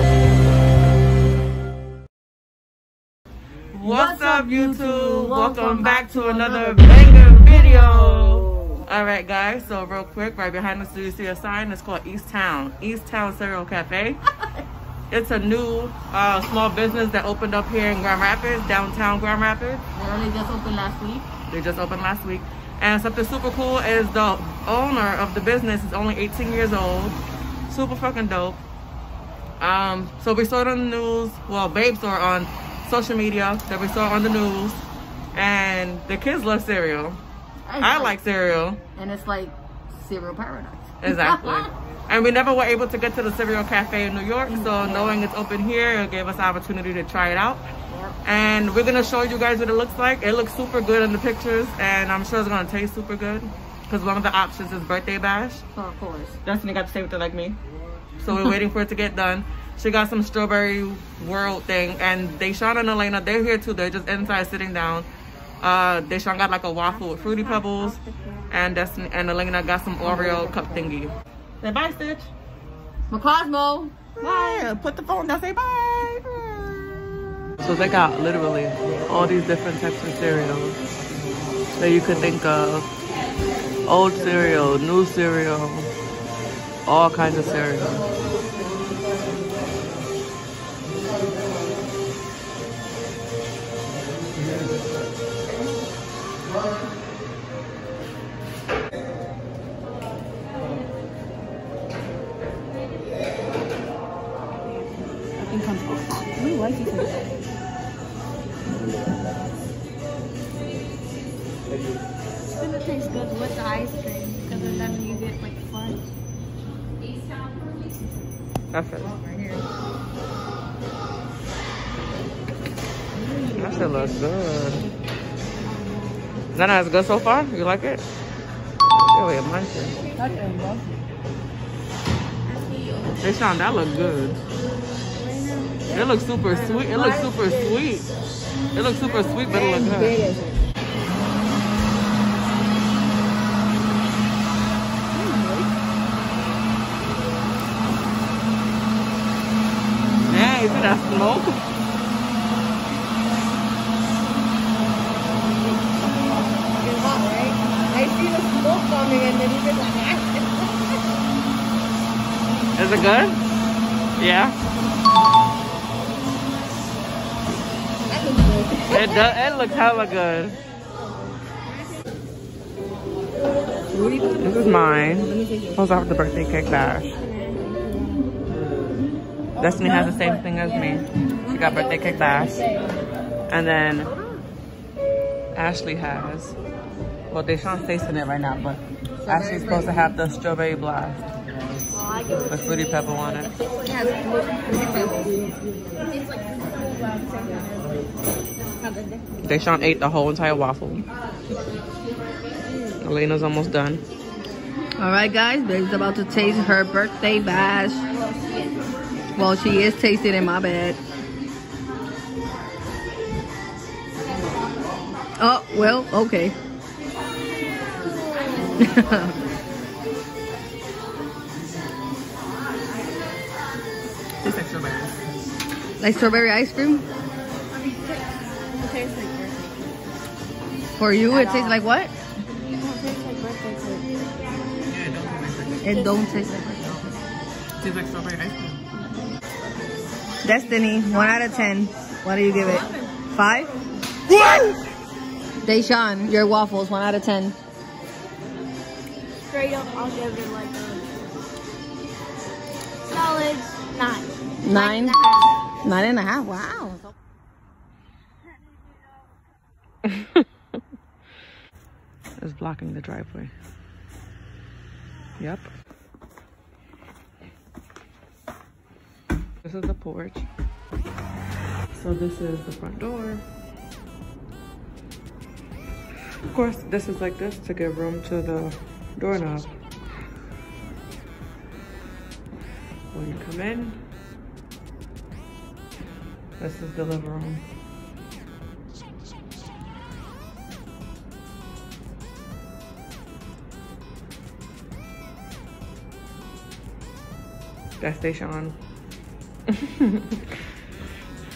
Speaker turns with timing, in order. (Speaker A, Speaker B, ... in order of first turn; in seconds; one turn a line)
Speaker A: 3.7-14.2
Speaker B: 3.8-8.4
Speaker A: 15.1-19.8
Speaker B: 19.9-21.3
Speaker A: 21.5-28.6
Speaker A: 29.6-37.2
Speaker B: 37.7-38.2
Speaker A: 37.8-38.8
Speaker B: 39.0-41.7
Speaker A: 41.0-55.7
Speaker B: 44.5-45.2
Speaker B: 47.9-48.1
Speaker B: 55.7-56.4
Speaker A: 56.4-57.6
Speaker A: 58.2-65.1
Speaker A: 65.6-72.3
Speaker C: 67.1-68.5
Speaker B: 70.1-70.6
Speaker B: 73.1-74.5
Speaker A: 74.2-76.1
Speaker A: 77.6-80.8
Speaker A: 81.8-82.9
Speaker A: 83.8-85.9
Speaker A: 86.8-88.0
Speaker C: 112.6-116.0
Speaker A: 118.7-119.2
Speaker B: 119.0-119.6
Speaker A: 123.5-124.9
Speaker C: 125.7-126.4
Speaker A: 126.5-128.1
Speaker A: 129.1-130.0
Speaker B: 130.1-130.5
Speaker C: 132.5-132.9
Speaker A: 133.2-134.4
Speaker C: 135.2-137.9
Speaker A: 135.9-138.1
Speaker A: 138.7-140.2
Speaker B: 139.5-140.6
Speaker A: 150.2-151.6
Speaker B: 157.0-160.7
Speaker A: 162.8-163.4
Speaker A: 164.2-164.6
Speaker B: 168.1-169.1
Speaker A: 168.9-170.6
Speaker B: 173.9-174.4
Speaker A: 174.4-177.1
Speaker A: 179.6-182.7
Speaker A: 183.5-184.1
Speaker A: 185.5-186.6
Speaker A: 187.3-191.2
Speaker B: 189.2-190.1
Speaker A: 192.2-193.5
Speaker B: 193.7-195.5
Speaker A: 199.4-201.0
Speaker A: 203.0-204.0
Speaker B: 205.0-208.1
Speaker B: 209.3-211.0
Speaker B: 215.4-216.6
Speaker B: 218.8-219.4
Speaker A: 224.4-225.2
Speaker B: 226.0-227.1
Speaker B: 230.9-232.1
Speaker C: 231.3-231.7
Speaker C: 232.8-234.0
Speaker A: 234.8-236.1
Speaker C: 235.8-236.6
Speaker B: 235.8-237.1
Speaker A: 237.8-238.8
Speaker B: 240.4-243.7
Speaker C: 241.2-241.7
Speaker C: 242.6-243.1
Speaker B: 245.6-247.6
Speaker C: 249.5-251.1
Speaker C: 253.1-255.5
Speaker B: 254.6-255.2
Speaker B: 255.8-257.0
Speaker A: 260.0-260.4
Speaker A: 262.4-263.5
Speaker A: 265.4-265.7
Speaker A: 269.6-270.5
Speaker A: 271.9-273.4
Speaker A: 276.5-279.8
Speaker A: 283.1-284.0
Speaker A: 286.6-287.6
Speaker A: 298.0-298.8
Speaker A: 299.7-300.6